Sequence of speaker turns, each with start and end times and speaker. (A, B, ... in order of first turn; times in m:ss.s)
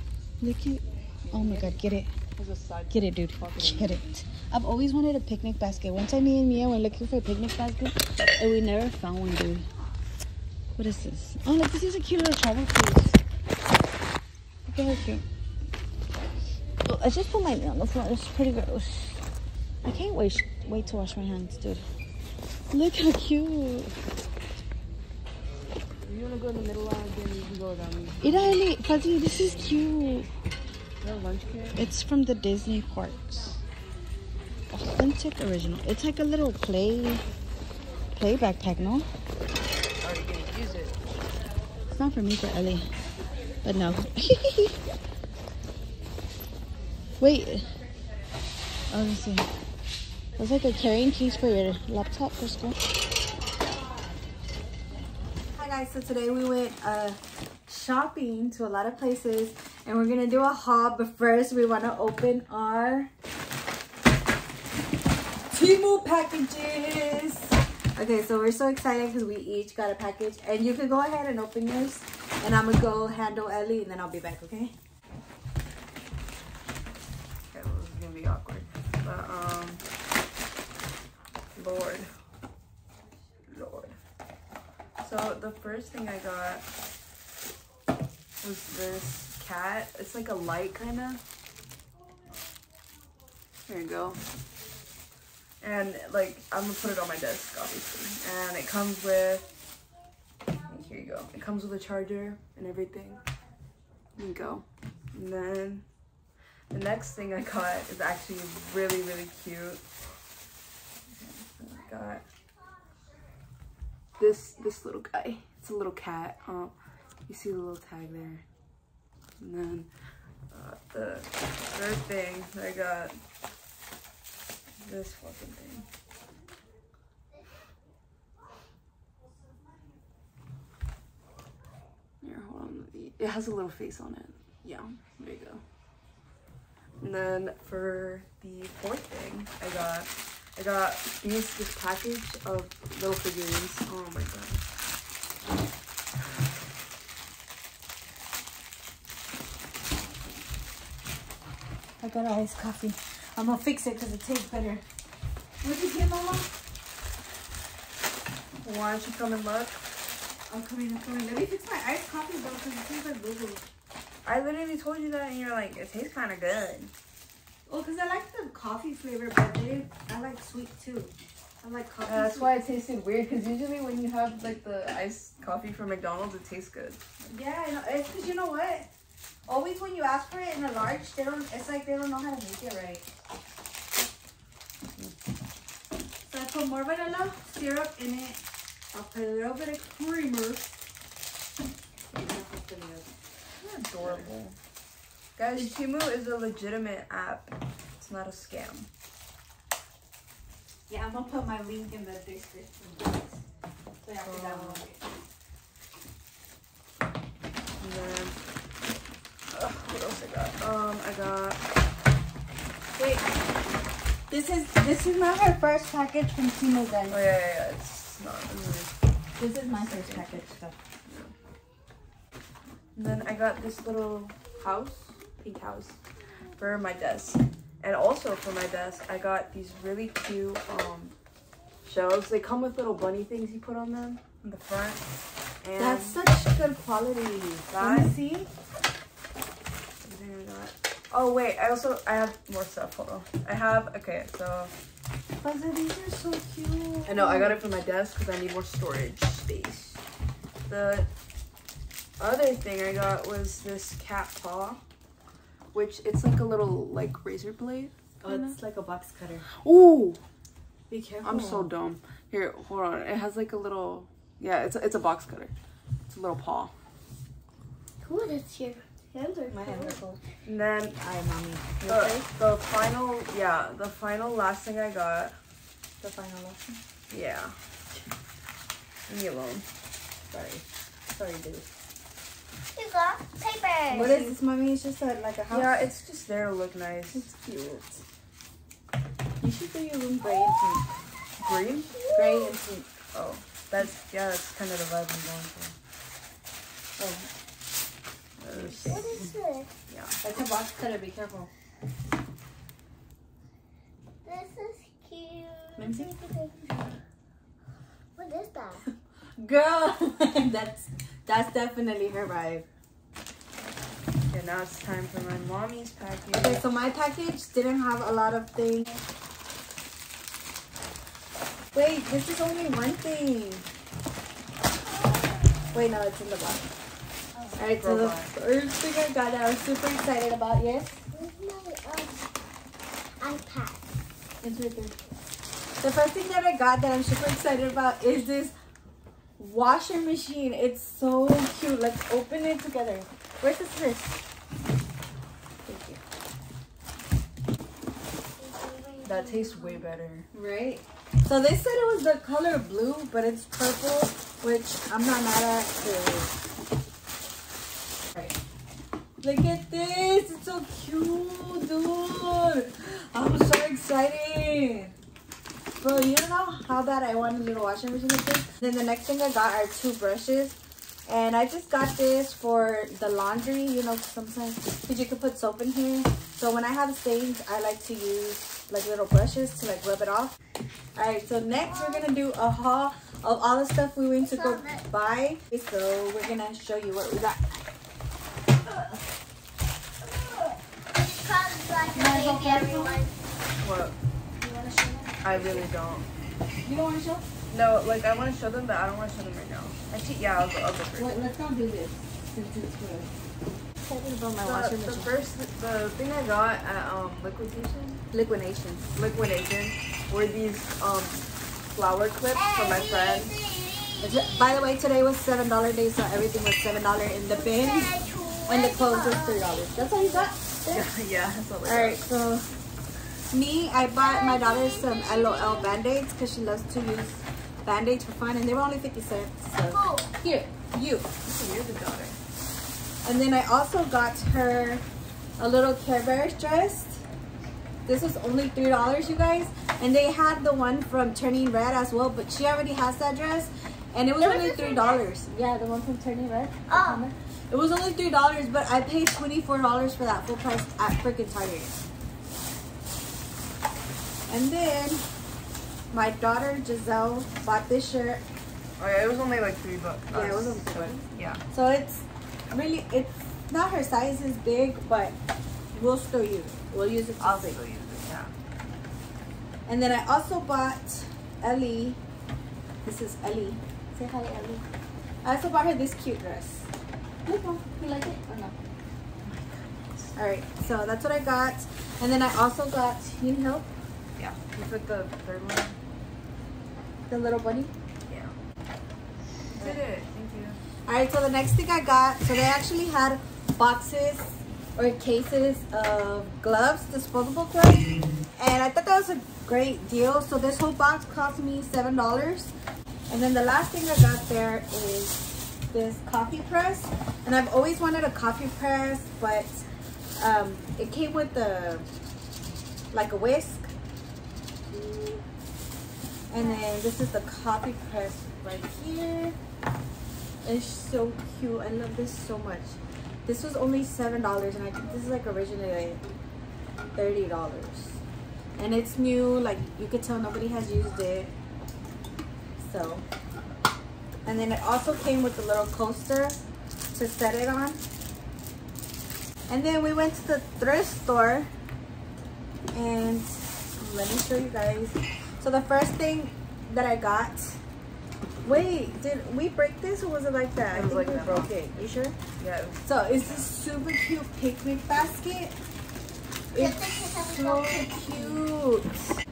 0:00.4-0:02.1 A
0:01.2-0:01.8 B
0:02.4-0:04.0 B
0:02.9-0:09.7 A
0:10.8-0:13.2 A
0:14.7-0:15.2 A
0:16.8-0:19.2 A
0:19.8-0:21.8 A
0:22.7-0:24.0 A
0:26.0-0:28.6 B
0:28.2-0:30.3 A
0:31.0-0:31.9 B
0:31.8-0:33.6 A
0:34.7-0:37.2 A
0:38.1-0:39.1 A
0:40.0-0:41.0 B
0:41.9-0:42.9 A
0:43.6-0:44.8 A
0:47.2-0:47.7 A
0:48.9-0:49.5 A
0:50.4-0:52.8 A
0:55.6-1:03.1 A
1:05.5-1:14.7 A
1:17.5-1:19.8 B
1:21.6-1:22.1 B
1:23.5-1:24.0 B
1:25.0-1:26.7 B
1:28.4-1:31.2 B
1:33.7-1:34.2 B
1:35.6-1:39.5 B
1:40.7-1:43.2 B
1:44.2-1:45.8 B
1:46.7-1:49.8 B
1:51.2-1:52.2 B
1:54.2-1:56.7 B
1:57.3-1:58.4 B
1:59.4-1:59.9 B
2:00.5-2:03.2 B
2:04.8-2:05.9 B
2:12.2-2:15.6 B
2:17.0-2:24.6 B
2:32.0-2:34.8 A
2:35.6-2:36.5 A
2:38.6-2:39.8 B
2:40.5-2:43.6 A
2:44.2-2:46.9 B
2:47.7-2:52.6 A
2:52.1-2:57.3 B
2:57.3-2:58.9 A
2:59.5-3:03.1 A
3:06.3-3:10.8 A
3:12.1-3:13.1 A
3:13.6-3:14.6 B
3:14.0-3:14.3 A
3:15.4-3:18.9 B
3:20.9-3:23.4 A
3:24.0-3:25.0 A
3:24.2-3:24.9 B
3:27.8-3:28.4 B
3:29.5-3:31.6 B
3:33.0-3:33.3 A
3:34.3-3:37.3 A
3:37.1-3:38.9 B
3:39.4-3:40.8 A
3:39.7-3:40.4 B
3:41.1-3:41.3 B
3:43.0-3:46.0 B
3:46.6-3:51.1 B
3:51.8-3:55.1 B
3:55.6-3:56.2 B
3:55.8-3:58.5 A
3:57.7-3:58.1 B
4:00.0-4:04.7 B
4:05.4-4:07.6 A
4:07.1-4:10.0 B
4:10.7-4:11.1 B
4:12.2-4:14.8 B
4:15.7-4:18.6 B
4:18.2-4:19.5 A
4:19.6-4:20.2 B
4:20.9-4:21.7 A
4:21.2-4:25.5 B
4:26.1-4:26.7 B
4:28.0-4:30.0 C
4:29.5-4:30.2 A
4:30.5-4:31.0 B
4:31.0-4:32.3 A
4:31.9-4:35.4 B
4:36.0-4:36.8 A
4:37.1-4:37.6 B
4:39.1-4:39.7 B
4:40.3-4:41.6 A
4:42.7-4:44.3 C
4:43.9-4:45.8 A
4:45.5-4:47.3 B
4:47.1-4:48.0 A
4:49.4-4:50.9 A
4:51.4-4:51.9 B
4:51.9-4:52.6 C
4:52.1-4:52.9 A
4:53.1-4:55.8 B
4:57.0-4:57.3 A
4:58.4-4:59.2 B
4:58.5-4:59.3 A
4:58.9-4:59.7 C
4:59.9-5:00.2 B
5:00.2-5:01.5 A
5:04.2-5:07.0 C
5:05.8-5:06.1 A
5:08.2-5:08.8 C
5:09.4-5:12.7 A
5:14.3-5:16.6 B
5:16.4-5:19.0 A
5:21.7-5:23.7 A
5:25.7-5:26.7 A
5:27.6-5:31.0 A
5:27.7-5:28.3 B
5:31.1-5:32.3 C
5:33.2-5:33.9 C
5:34.4-5:34.9 A
5:35.8-5:38.5 A
5:39.4-5:44.2 A
5:45.7-5:46.0 A
5:48.4-5:49.9 C
5:49.0-5:50.3 B
5:50.3-5:56.3 A
5:59.2-6:04.9 A
6:05.8-6:20.4 A
6:21.0-6:27.6 A
6:21.7-6:22.1 C
6:24.2-6:24.8 C
6:28.6-6:29.0 A
6:30.0-6:30.6 A
6:31.1-6:33.1 C
6:31.9-6:33.0 A
6:33.6-6:34.0 B
6:34.4-6:35.7 C
6:35.2-6:36.1 B
6:36.6-6:37.3 A
6:37.5-6:41.2 B
6:41.0-6:43.1 A
6:43.8-6:45.1 A
6:44.4-6:48.0 B
6:48.1-6:48.9 A
6:49.0-6:53.4 B
6:52.4-6:54.0 C
6:54.0-7:00.4 A
6:57.4-7:00.8 C
7:00.7-7:02.0 B
7:01.6-7:02.5 A
7:03.3-7:11.1 A
7:04.0-7:05.8 C
7:09.7-7:10.2 C
7:11.2-7:12.2 B
7:13.0-7:14.8 A
7:15.4-7:17.0 A
7:17.9-7:31.8 A
7:24.2-7:25.0 C
7:26.7-7:27.0 C
7:34.3-7:35.0 A
7:35.9-7:38.2 A
7:38.8-7:41.4 B
7:40.1-7:45.2 A
7:45.7-7:47.6 A
7:47.2-7:48.3 B
7:49.7-7:52.0 A
7:52.8-7:54.6 A
7:55.2-7:56.7 A
7:57.3-7:58.6 A
7:59.2-8:00.1 B
8:00.1-8:03.7 A
8:04.2-8:05.8 B
8:07.1-8:07.7 A
8:08.1-8:08.4 B
8:09.5-8:10.6 B
8:10.9-8:22.5 A
8:23.1-8:29.6 A
8:30.2-8:31.9 A
8:32.9-8:33.7 A
8:34.7-8:35.2 A
8:36.3-8:39.4 A
8:40.4-8:46.0 A
8:47.0-8:48.0 A
8:48.6-8:51.3 A
8:52.6-8:53.0 A
8:54.3-8:56.4 A
8:56.9-8:57.8 A
8:59.5-9:01.5 A
9:02.7-9:07.6 A
9:08.4-9:12.2 A
9:10.7-9:11.5 B
9:12.4-9:13.5 B
9:12.8-9:15.6 A
9:16.5-9:18.4 C
9:16.5-9:19.1 A